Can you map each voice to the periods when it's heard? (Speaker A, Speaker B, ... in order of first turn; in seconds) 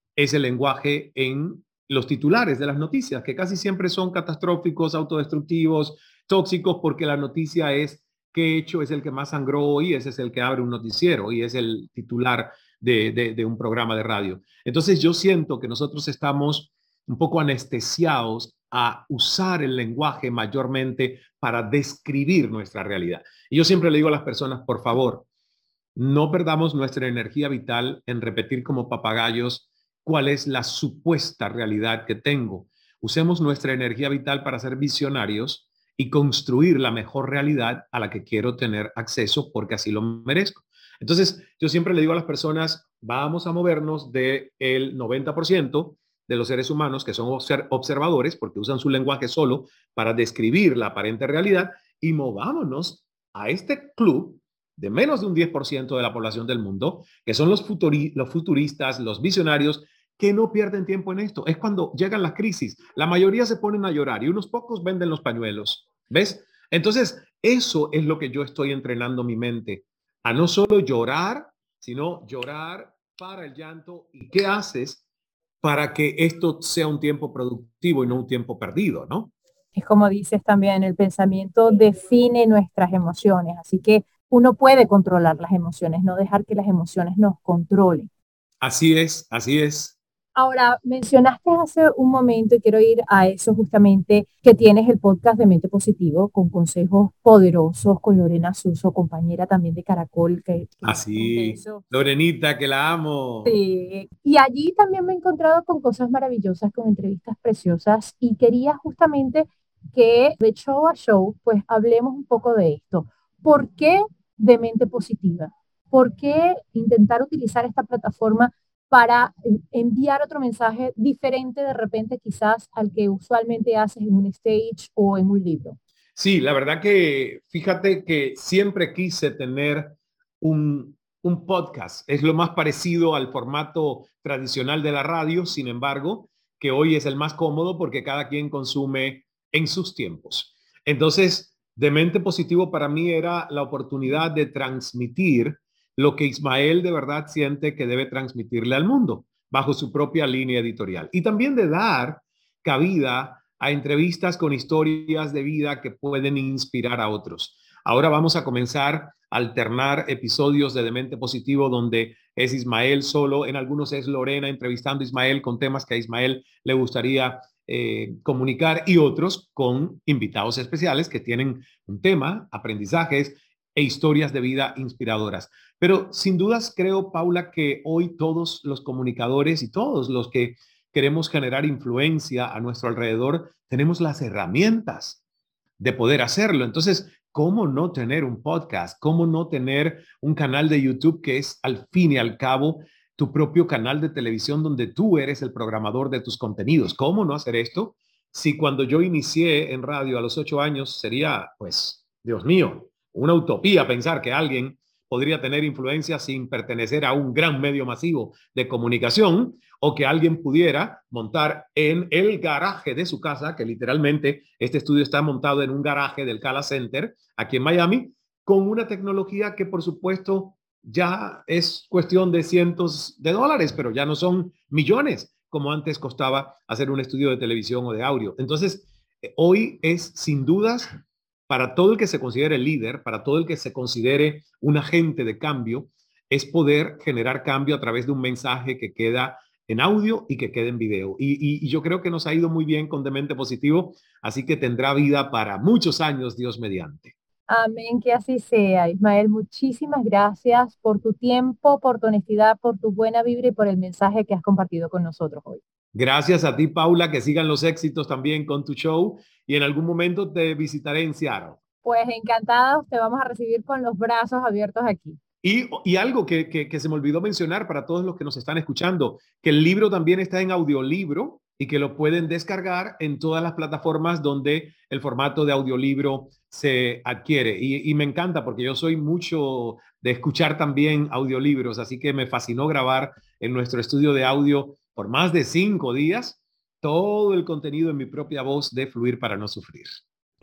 Speaker A: 0.1-25.2, 25.9-75.0, 75.6-79.3, 88.6-90.0, 100.8-103.6, 126.2-185.2, 185.8-247.1, 255.9-261.6, 265.4-290.0
Speaker B: 79.7-88.1, 90.4-101.9, 103.4-125.8, 247.5-255.6, 261.8-265.2